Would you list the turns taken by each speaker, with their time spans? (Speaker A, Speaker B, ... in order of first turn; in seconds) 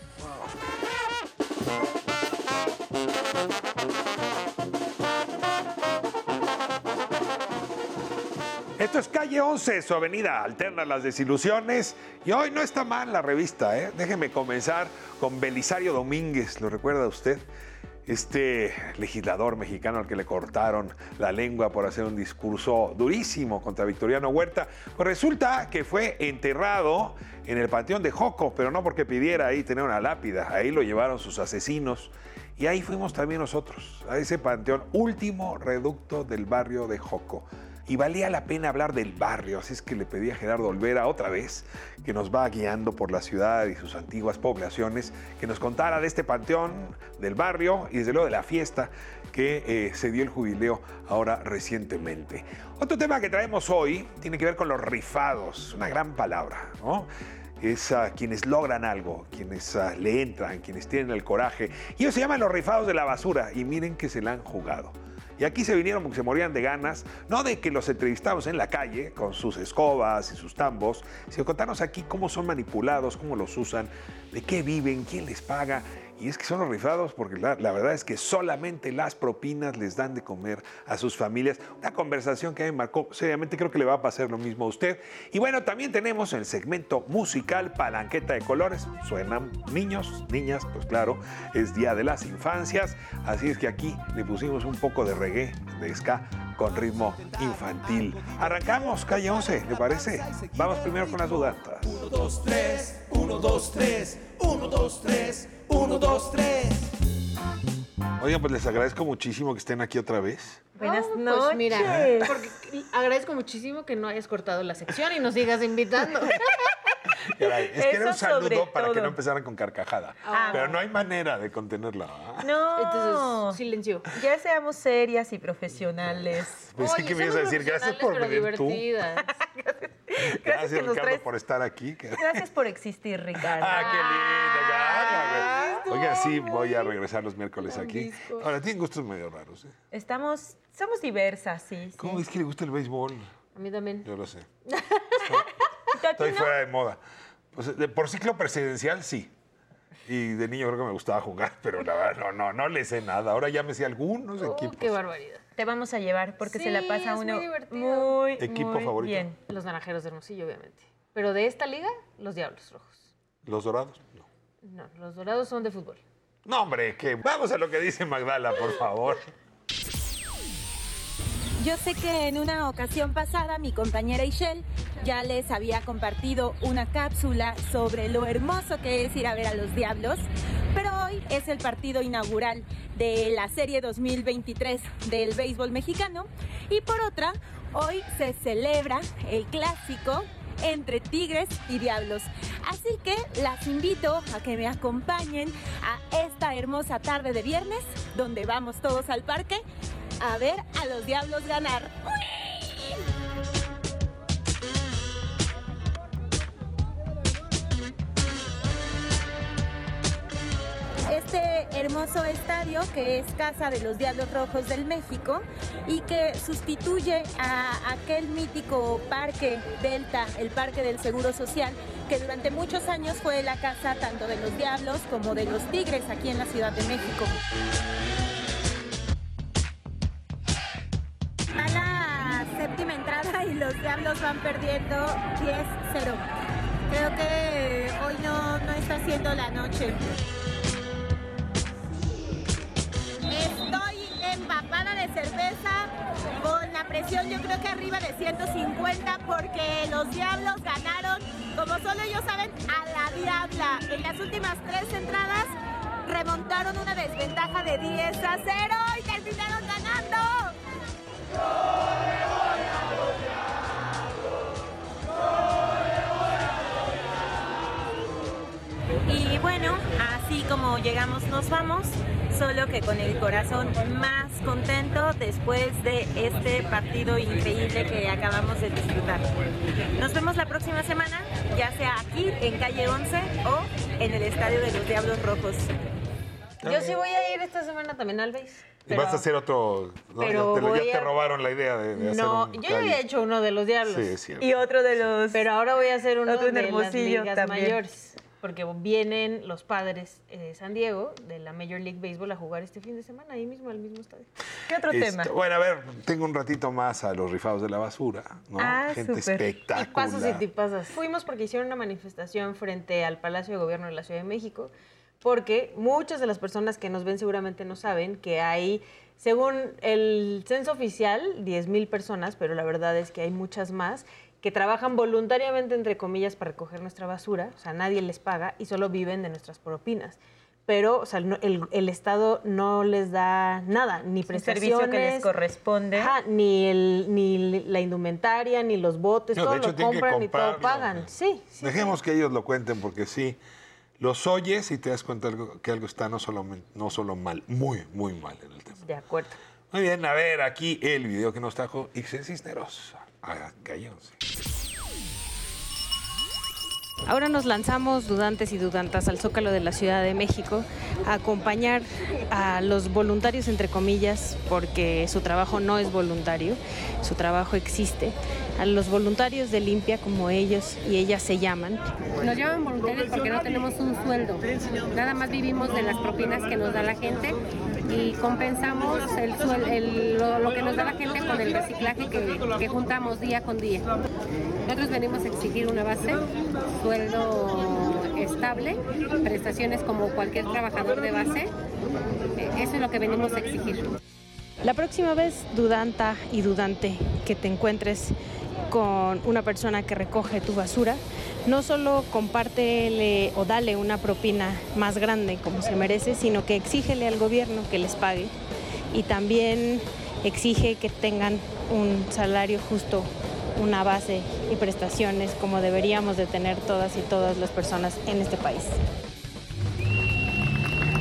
Speaker A: 0.2-0.5, 8.8-17.5, 18.1-57.1, 57.6-102.0, 108.2-110.7, 117.4-122.5, 126.7-128.8, 130.3-132.4, 133.5-139.8, 141.9-143.3, 144.0-144.5, 146.1-147.0, 147.5-149.3, 150.0-155.0, 158.4-159.3, 163.4-164.2, 166.4-169.3, 286.6-286.9, 288.9-293.0, 293.8-294.5, 304.9-310.4, 339.3-341.1, 341.6-343.4, 344.0-348.8, 349.7-354.2
Speaker B: 97.1-106.9
Speaker C: 110.8-112.5, 117.4-119.2, 120.2-120.8, 122.4-126.7, 130.2-131.2, 132.1-136.9, 137.7-138.5, 139.9-142.2, 145.9-146.5, 155.5-159.4, 294.4-295.5, 296.2-297.8, 304.7-305.3, 308.6-309.5, 334.3-336.2
Speaker D: 110.8-116.4, 120.3-120.7, 122.8-124.1, 126.8-129.2, 143.5-144.1, 154.4-155.4, 156.4-158.2, 159.4-163.1, 164.6-166.0, 286.6-289.2, 290.2-291.1, 291.9-294.2, 295.3-304.3, 309.7-314.7, 315.2-335.3, 335.9-341.9, 348.9-349.3
Speaker E: 171.6-199.6, 200.2-202.9, 211.1-227.3, 231.6-236.2, 236.9-240.0, 243.3-255.5, 256.1-260.5, 269.1-279.3, 280.0-285.7
Speaker F: 357.0-371.8, 394.6-398.1, 398.7-408.3, 408.9-418.8
Speaker G: 372.2-383.9, 384.6-386.2, 386.8-391.5, 392.4-393.9